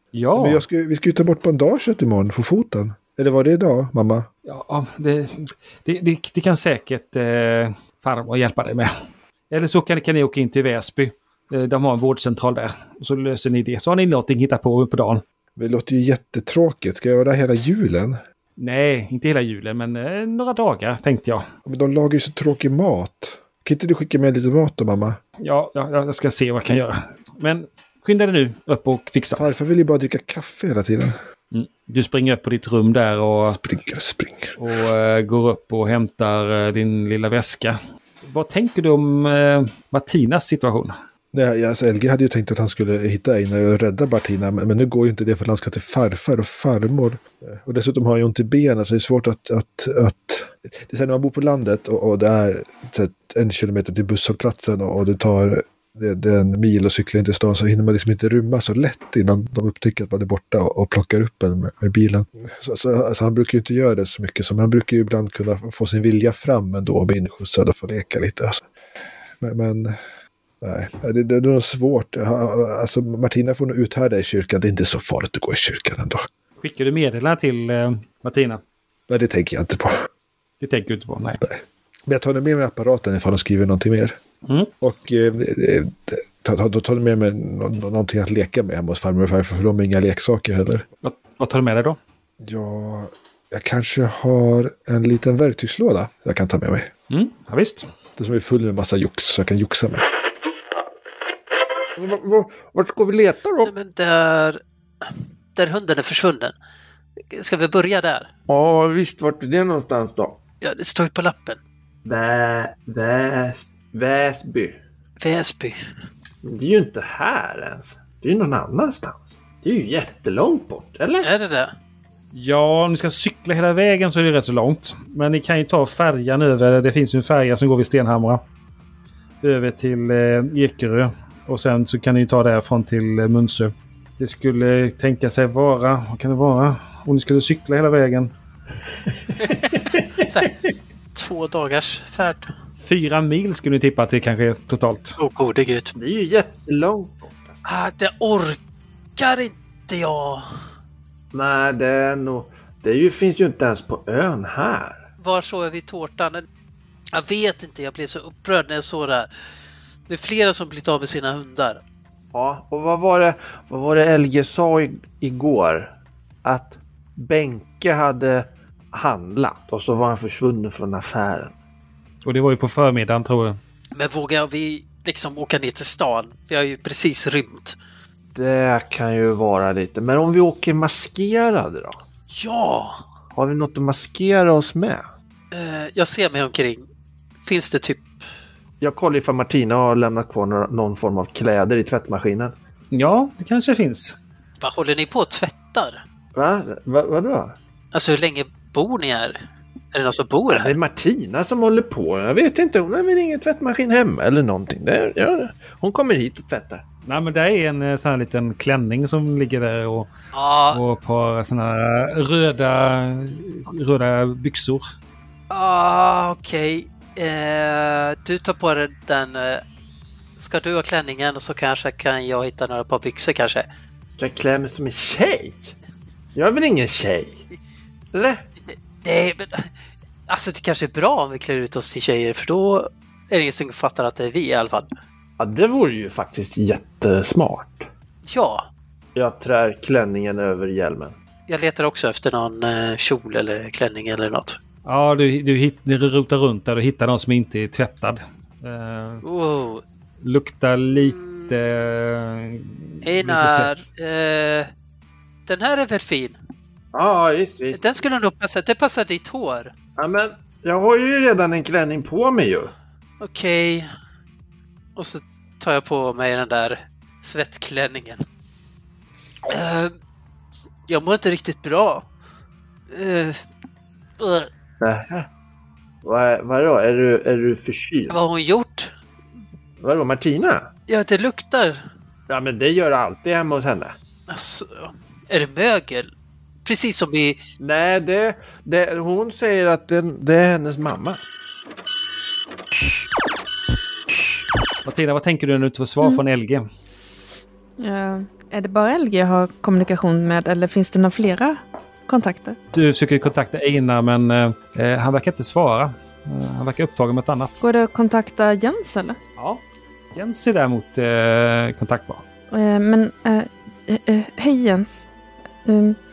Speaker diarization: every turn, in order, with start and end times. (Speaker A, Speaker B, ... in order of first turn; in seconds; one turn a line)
Speaker A: 0.1-0.6
Speaker B: 0.3-4.3
Speaker A: 4.5-8.9
Speaker A: 9.5-15.2
Speaker B: 15.6-18.2
Speaker A: 18.6-21.4
Speaker B: 21.6-25.2
Speaker A: 25.4-29.4
Speaker B: 29.3-31.1
Speaker A: 31.5-33.6
Speaker B: 33.4-34.5
Speaker A: 34.6-40.9
Speaker B: 41.3-68.7
Speaker B: 69.4-70.0
Speaker B: 70.6-76.3
Speaker A: 76.6-78.6
Speaker B: 79.1-80.0
Speaker A: 80.6-81.4
Speaker B: 81.4-84.2
Speaker A: 84.5-84.7
Speaker B: 84.8-90.8
Speaker A: 91.0-92.0
Speaker B: 92.4-96.9
Speaker A: 97.1-97.8
Speaker B: 98.2-100.0
Speaker C: 102.0-103.7
Speaker D: 103.6-106.5
Speaker D: 107.3-108.3
Speaker C: 108.5-110.4
Speaker D: 110.6-111.6
Speaker C: 112.0-114.8
Speaker D: 115.2-115.8
Speaker C: 116.4-121.3
Speaker D: 121.2-121.7
Speaker A: 122.3-128.4
Speaker A: 129.4-138.3
Speaker D: 139.4-140.6
Speaker C: 140.0-140.5
Speaker D: 141.1-142.5
Speaker A: 142.8-145.2
Speaker D: 145.2-145.9
Speaker C: 145.9-147.6
Speaker D: 147.6-148.6
Speaker D: 149.2-150.5
Speaker C: 151.3-155.0
Speaker D: 155.2-156.4
Speaker D: 157.1-159.3
Speaker D: 160.1-161.8
Speaker C: 162.3-171.5
Speaker A: 172.2-173.6
Speaker D: 173.9-177.8
Speaker C: 178.3-182.0
Speaker D: 182.3-183.0
Speaker C: 183.3-185.0
Speaker D: 185.5-186.8
Speaker D: 187.4-188.1
Speaker C: 188.8-192.5
Speaker A: 192.9-194.2
Speaker D: 194.6-196.0
Speaker C: 196.3-197.6
Speaker D: 197.9-199.4
Speaker D: 199.9-200.7
Speaker C: 200.5-206.8
Speaker A: 207.1-210.1
Speaker D: 210.3-210.8
Speaker A: 210.7-214.8
Speaker D: 215.5-219.6
Speaker D: 220.4-223.7
Speaker C: 224.2-225.7
Speaker C: 226.3-227.4
Speaker C: 228.1-228.4
Speaker D: 228.7-229.7
Speaker D: 230.3-234.9
Speaker C: 235.4-237.9
Speaker D: 238.2-238.7
Speaker C: 239.1-241.1
Speaker D: 241.5-244.6
Speaker A: 244.8-249.2
Speaker D: 249.2-249.8
Speaker A: 250.2-253.7
Speaker D: 251.0-251.5
Speaker D: 253.0-254.7
Speaker D: 255.5-256.4
Speaker C: 256.9-257.8
Speaker D: 257.7-259.7
Speaker C: 260.0-262.7
Speaker D: 263.2-263.9
Speaker D: 264.9-268.2
Speaker D: 269.5-269.9
Speaker D: 270.9-272.0
Speaker D: 272.9-273.4
Speaker D: 274.2-274.5
Speaker C: 274.8-275.3
Speaker C: 276.0-278.2
Speaker D: 278.1-278.9
Speaker C: 279.8-280.7
Speaker D: 280.9-281.8
Speaker C: 282.3-283.9
Speaker D: 284.3-286.1
Speaker D: 286.6-287.4
Speaker C: 287.6-291.2
Speaker A: 294.8-296.6
Speaker E: 297.8-302.6
Speaker A: 302.7-307.6
Speaker E: 307.6-309.2
Speaker A: 309.4-309.6
Speaker A: 310.1-312.2
Speaker E: 312.5-315.1
Speaker E: 315.6-316.0